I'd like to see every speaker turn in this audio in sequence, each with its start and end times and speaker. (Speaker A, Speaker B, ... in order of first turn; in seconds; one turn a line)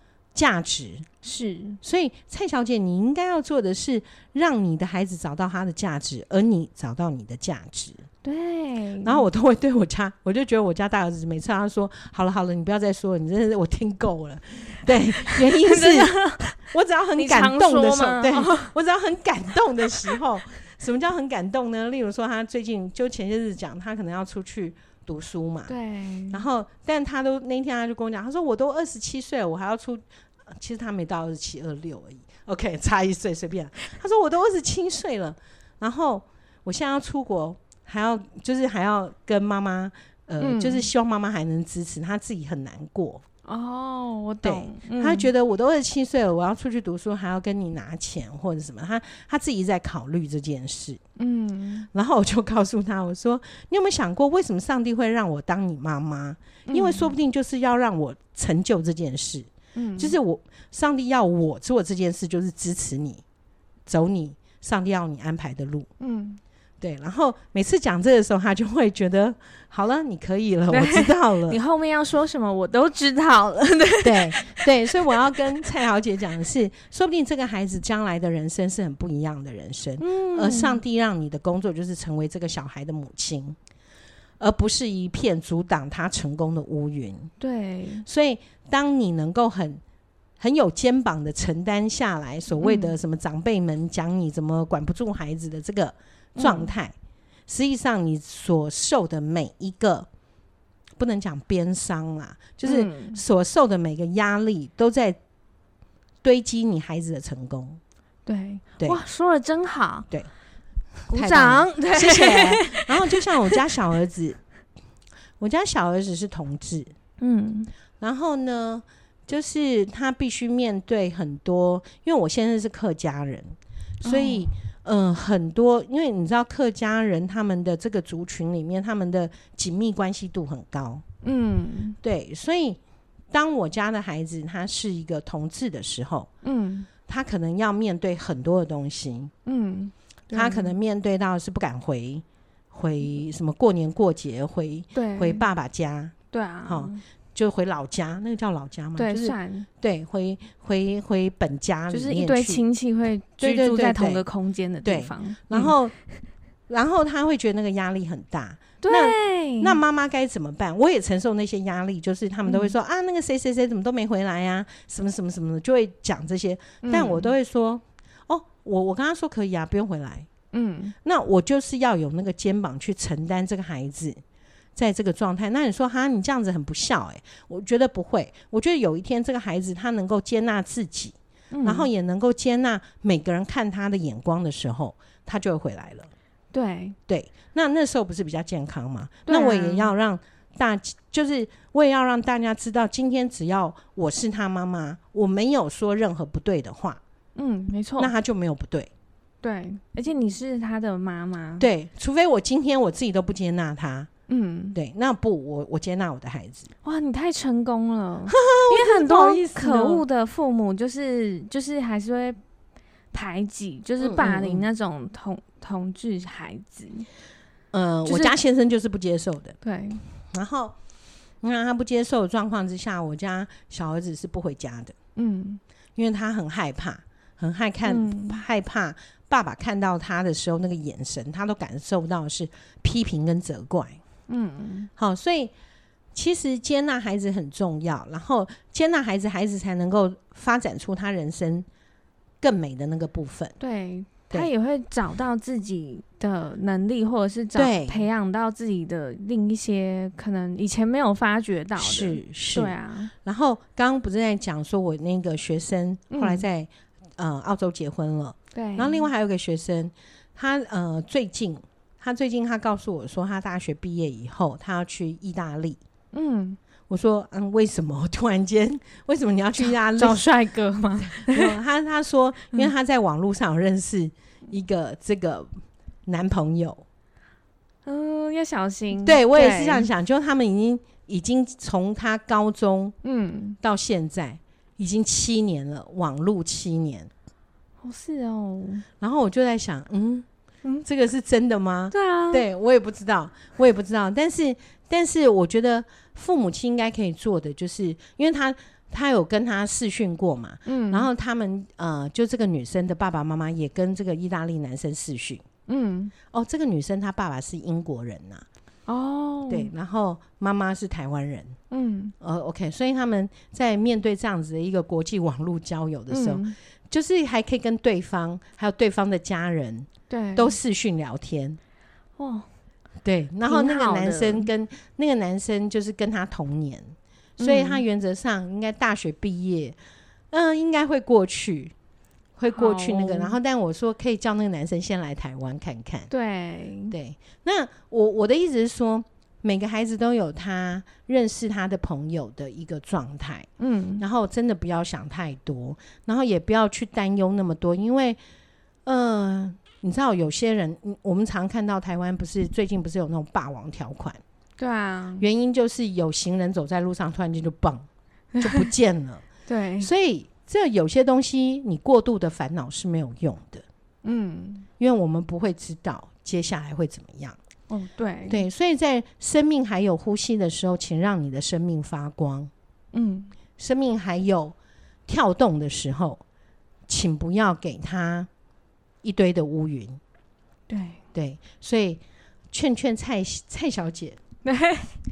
Speaker A: 0.3-1.1
Speaker B: 1.2-1.8
Speaker A: 1.8-8.0
Speaker B: 8.2-9.2
Speaker A: 9.0-25.7
Speaker B: 15.2-16.6
Speaker B: 17.1-18.7
Speaker B: 25.7-26.4
Speaker A: 26.3-43.2
Speaker B: 40.4-40.9
Speaker B: 43.5-45.3
Speaker A: 44.4-51.0
Speaker B: 51.2-51.9
Speaker A: 51.9-63.2
Speaker B: 56.7-57.1
Speaker B: 59.7-60.1
Speaker A: 63.9-65.9
Speaker B: 66.0-66.4
Speaker A: 66.8-71.6
Speaker B: 70.7-75.6
Speaker A: 74.0-83.5
Speaker B: 80.0-80.8
Speaker A: 84.4-87.3
Speaker B: 87.4-88.0
Speaker A: 88.0-89.8
Speaker A: 90.4-96.9
Speaker B: 92.6-92.9
Speaker B: 96.3-96.7
Speaker A: 97.5-100.1
Speaker A: 101.0-105.2
Speaker B: 102.6-103.2
Speaker A: 106.2-107.8
Speaker B: 108.2-110.1
Speaker A: 111.1-114.4
Speaker B: 111.1-113.6
Speaker A: 115.4-116.9
Speaker B: 117.2-117.7
Speaker A: 118.0-131.0
Speaker B: 124.0-124.5
Speaker B: 131.2-132.0
Speaker A: 132.0-132.8
Speaker A: 133.3-136.3
Speaker B: 136.4-136.9
Speaker A: 137.1-139.3
Speaker B: 139.4-140.7
Speaker A: 140.3-146.1
Speaker B: 144.9-145.4
Speaker B: 146.3-147.0
Speaker A: 146.7-152.6
Speaker B: 149.0-149.7
Speaker B: 151.9-155.7
Speaker A: 153.4-154.2
Speaker A: 154.8-155.9
Speaker A: 156.7-170.3
Speaker B: 158.8-159.8
Speaker B: 162.4-162.7
Speaker B: 166.8-167.3
Speaker B: 170.5-170.9
Speaker A: 171.0-174.2
Speaker A: 174.8-186.1
Speaker B: 181.5-181.9
Speaker B: 186.5-187.0
Speaker A: 187.1-197.0
Speaker B: 189.3-189.9
Speaker B: 197.3-198.1
Speaker A: 198.0-198.9
Speaker B: 199.4-201.7
Speaker A: 201.6-204.1
Speaker B: 204.3-204.8
Speaker A: 204.7-206.7
Speaker B: 206.8-212.4
Speaker A: 208.3-210.0
Speaker B: 213.1-217.1
Speaker A: 214.0-214.7
Speaker A: 217.7-219.6
Speaker B: 218.1-218.3
Speaker B: 219.6-220.0
Speaker A: 220.3-220.8
Speaker A: 221.4-224.9
Speaker B: 225.2-225.6
Speaker A: 225.9-234.0
Speaker B: 227.8-228.4
Speaker B: 234.3-234.9
Speaker A: 235.0-235.5
Speaker A: 236.1-241.7
Speaker A: 242.4-243.6
Speaker B: 243.6-253.1
Speaker A: 247.5-248.1
Speaker A: 251.8-265.8
Speaker B: 256.1-256.4
Speaker B: 258.5-259.1
Speaker B: 266.1-266.6
Speaker A: 266.9-270.2
Speaker B: 269.6-271.5
Speaker A: 271.0-275.5
Speaker A: 276.1-276.8
Speaker B: 277.9-279.9
Speaker A: 279.0-282.9
Speaker B: 283.0-283.6
Speaker A: 283.6-287.1
Speaker B: 287.8-288.9
Speaker A: 289.0-290.2
Speaker A: 290.8-305.4
Speaker B: 291.9-292.4
Speaker B: 300.6-301.1
Speaker B: 305.7-306.1
Speaker A: 306.3-308.4
Speaker B: 308.9-309.7
Speaker A: 309.5-311.6
Speaker B: 311.7-312.1
Speaker A: 312.2-321.6
Speaker B: 316.1-316.5
Speaker B: 320.1-320.6
Speaker B: 322.2-322.5
Speaker A: 323.0-329.8
Speaker B: 323.4-324.5
Speaker B: 327.4-327.8
Speaker A: 330.3-331.7
Speaker A: 332.4-336.1
Speaker B: 332.5-333.4
Speaker B: 336.1-336.9
Speaker A: 336.9-343.5
Speaker B: 343.6-344.0
Speaker A: 344.0-348.2
Speaker A: 348.9-354.2
Speaker B: 354.6-355.2
Speaker A: 355.2-357.9
Speaker B: 358.3-358.7
Speaker A: 358.4-359.2
Speaker B: 359.5-359.9
Speaker A: 359.8-363.6
Speaker B: 364.0-364.6
Speaker A: 364.8-367.4
Speaker B: 367.7-368.4
Speaker A: 368.3-372.5
Speaker B: 372.9-373.3
Speaker A: 373.6-374.5
Speaker A: 375.1-376.2
Speaker A: 376.9-378.3
Speaker A: 379.0-380.0
Speaker B: 380.7-381.0
Speaker A: 381.1-384.2
Speaker B: 384.4-384.9